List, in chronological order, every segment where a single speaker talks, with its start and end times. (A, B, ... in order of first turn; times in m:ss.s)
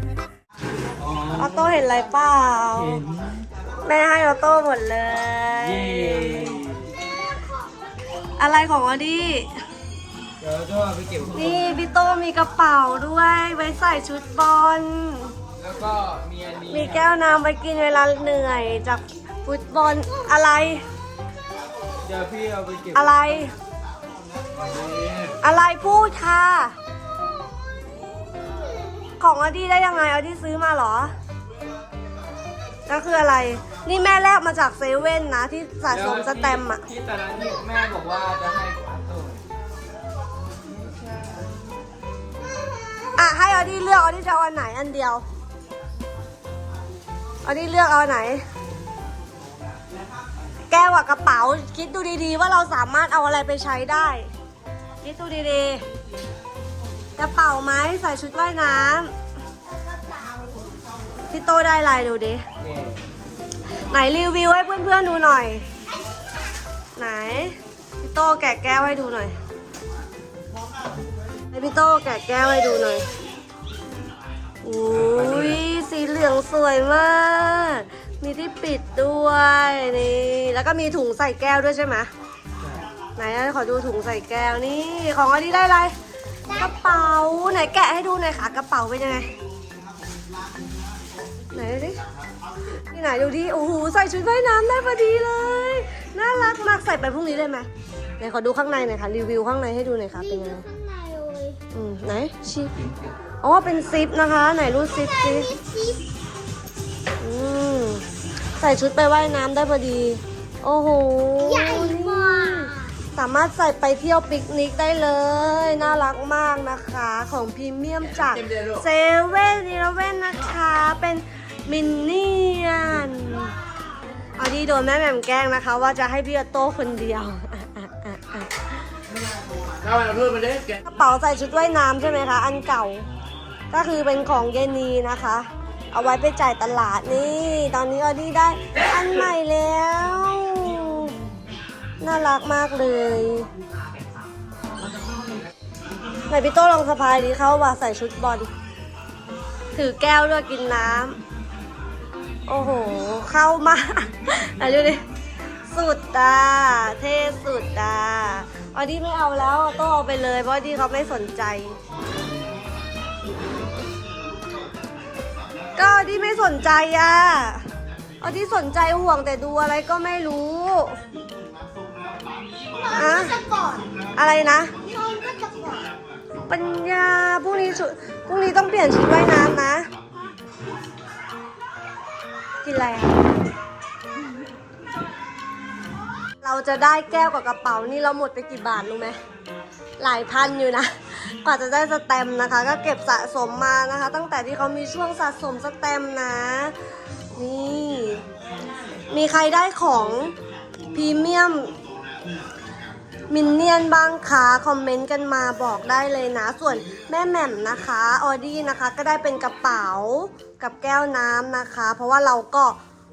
0:01.0-0:01.5 A
0:01.4-0:03.0 B
0:02.8-0:03.5 A
0:03.8-0:06.6 B
0:05.6-0:06.9 A
0:08.4-0:09.5 B
0:10.4-0:11.7 A
0:11.3-0:15.3 B
0:15.6-0:17.1 A
0:16.7-0:20.8 B
0:22.0-0:23.1 A
0:22.9-0:23.5 B
0:24.6-0:25.4 A
0:25.4-0:26.8 B
0:29.2-0:31.1 B
0:32.9-0:36.8 B
0:35.9-0:39.4 A
0:43.2-0:45.2 B
0:47.4-0:48.4 B
0:50.7-0:54.3 B
0:55.0-0:55.8 B
0:57.2-0:59.1 B
1:01.3-1:02.4 B
1:03.9-1:05.6 B
1:07.0-1:09.3 B
1:11.5-1:13.0 B
1:14.6-1:22.1 B
1:14.9-1:15.6 A
1:23.2-1:25.9 B
1:26.5-1:29.3 B
1:31.5-1:32.0 B
1:32.9-1:37.7 B
1:38.2-1:40.6 B
1:40.2-1:41.6 C
1:41.7-1:42.7 B
1:43.4-1:45.5 B
1:44.9-1:46.1 C
1:47.2-1:48.0 B
1:48.6-2:03.5 B
1:51.4-1:52.9 C
1:58.2-1:58.8 A
2:04.4-2:08.5 B
2:09.8-2:10.8 A
2:10.8-2:13.1 B
2:13.7-2:21.1 B
2:22.0-2:23.5 B
2:26.3-2:28.5 B
2:29.7-2:31.2 B
2:32.5-2:35.0 B
2:35.7-2:41.8 B
2:45.8-2:47.6 B
2:48.2-2:51.0 B
2:52.7-2:53.9 C
2:52.9-2:53.4 B
2:54.2-2:54.7 B
2:54.8-2:55.9 C
2:56.5-2:59.9 B
3:02.6-3:03.3 B
3:06.4-3:09.2 B
3:10.0-3:16.7 B
3:17.3-3:18.2 B
3:19.1-3:20.3 B
3:20.9-3:21.7 B
3:23.3-3:32.8 B